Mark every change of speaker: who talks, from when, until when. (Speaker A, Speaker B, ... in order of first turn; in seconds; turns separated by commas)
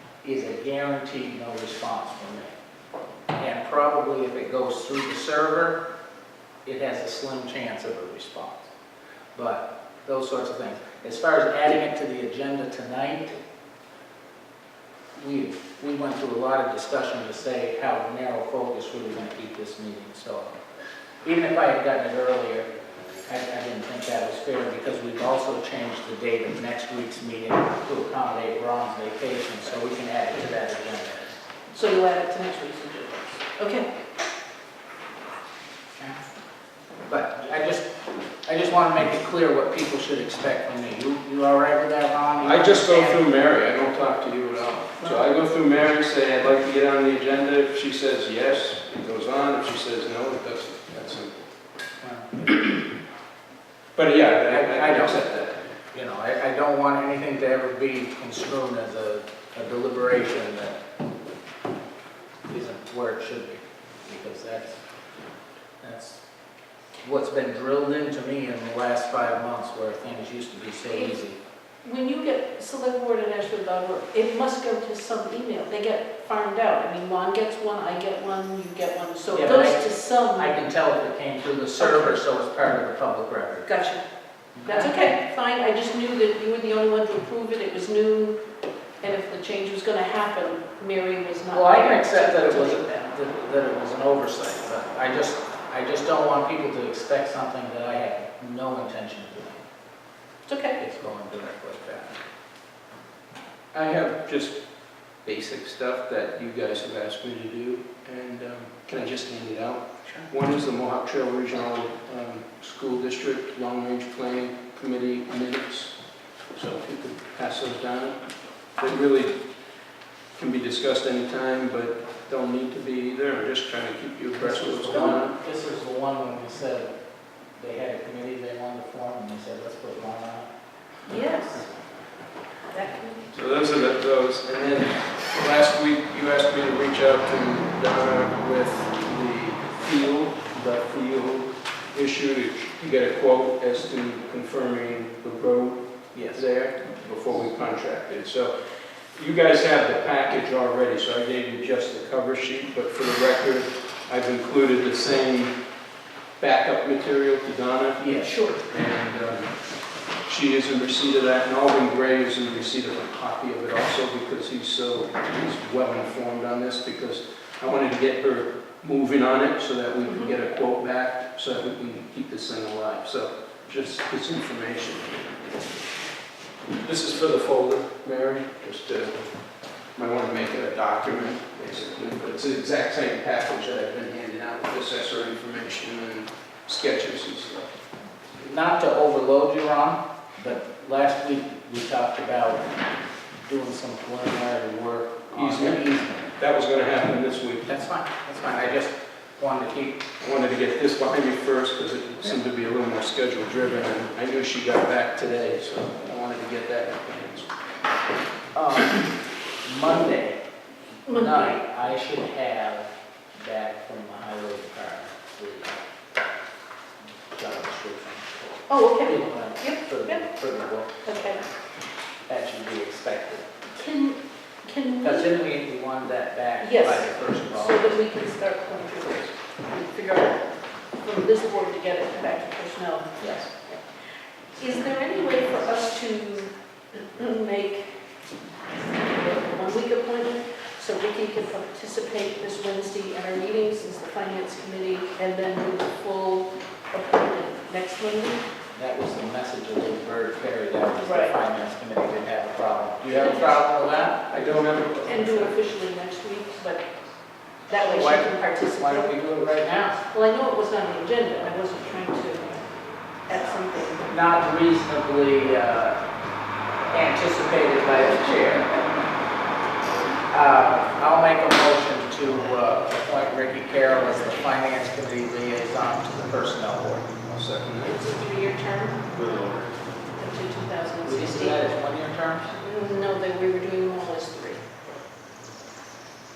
Speaker A: 0.2-2.5, Speaker A: 3.4-5.8, Speaker A: 6.7-8.7, Speaker A: 9.3-13.4, Speaker A: 15.2-20.6, Speaker A: 21.2-22.7, Speaker A: 23.3-31.3, Speaker B: 31.7-33.9, Speaker A: 37.1-37.9, Speaker A: 38.5-43.2, Speaker C: 42.4-51.5, Speaker A: 52.0-52.3, Speaker C: 54.0-55.6, Speaker A: 54.5-55.2, Speaker A: 55.9-60.8, Speaker A: 62.5-64.8, Speaker A: 65.8-66.2, Speaker A: 67.0-71.4, Speaker B: 71.8-80.6, Speaker A: 79.3-83.7, Speaker B: 81.8-82.2, Speaker B: 83.7-84.0, Speaker A: 84.6-85.1, Speaker B: 84.7-88.4, Speaker B: 89.0-93.0, Speaker A: 91.5-99.7, Speaker B: 100.5-100.8, Speaker A: 100.8-102.2, Speaker C: 103.7-104.6, Speaker C: 105.2-116.0, Speaker C: 116.5-119.4, Speaker C: 120.4-125.4, Speaker A: 124.4-127.0, Speaker B: 124.9-125.2, Speaker A: 127.6-130.5, Speaker B: 131.1-131.7, Speaker B: 132.7-133.2, Speaker C: 133.3-155.6, Speaker A: 146.1-146.4, Speaker C: 156.4-159.6, Speaker A: 158.0-158.3, Speaker B: 158.1-158.6, Speaker C: 160.2-175.2, Speaker C: 176.8-179.2, Speaker C: 179.9-187.7, Speaker A: 188.4-192.7, Speaker A: 193.4-196.3, Speaker C: 195.3-197.7, Speaker A: 197.7-200.0, Speaker C: 200.2-207.5, Speaker A: 208.5-209.1, Speaker A: 209.7-210.4, Speaker A: 211.1-215.8, Speaker B: 211.1-211.6, Speaker A: 217.3-221.5, Speaker B: 218.7-220.2, Speaker B: 221.0-221.4, Speaker A: 222.3-223.5, Speaker B: 223.8-225.3, Speaker A: 225.0-228.0, Speaker B: 226.6-230.5, Speaker B: 231.0-233.8, Speaker A: 233.2-233.5, Speaker B: 234.6-237.9, Speaker B: 238.8-248.4, Speaker A: 248.8-254.2, Speaker B: 251.0-251.4, Speaker B: 253.1-253.6, Speaker C: 254.3-255.6, Speaker B: 255.1-256.9, Speaker B: 257.7-259.2, Speaker A: 257.8-260.0, Speaker B: 260.1-262.7, Speaker B: 263.2-264.1, Speaker A: 264.0-266.0, Speaker A: 266.9-268.8, Speaker B: 267.9-268.8, Speaker A: 270.3-277.1, Speaker C: 277.2-278.0, Speaker B: 277.8-279.6, Speaker B: 280.2-281.6, Speaker A: 281.0-282.5, Speaker B: 282.6-284.6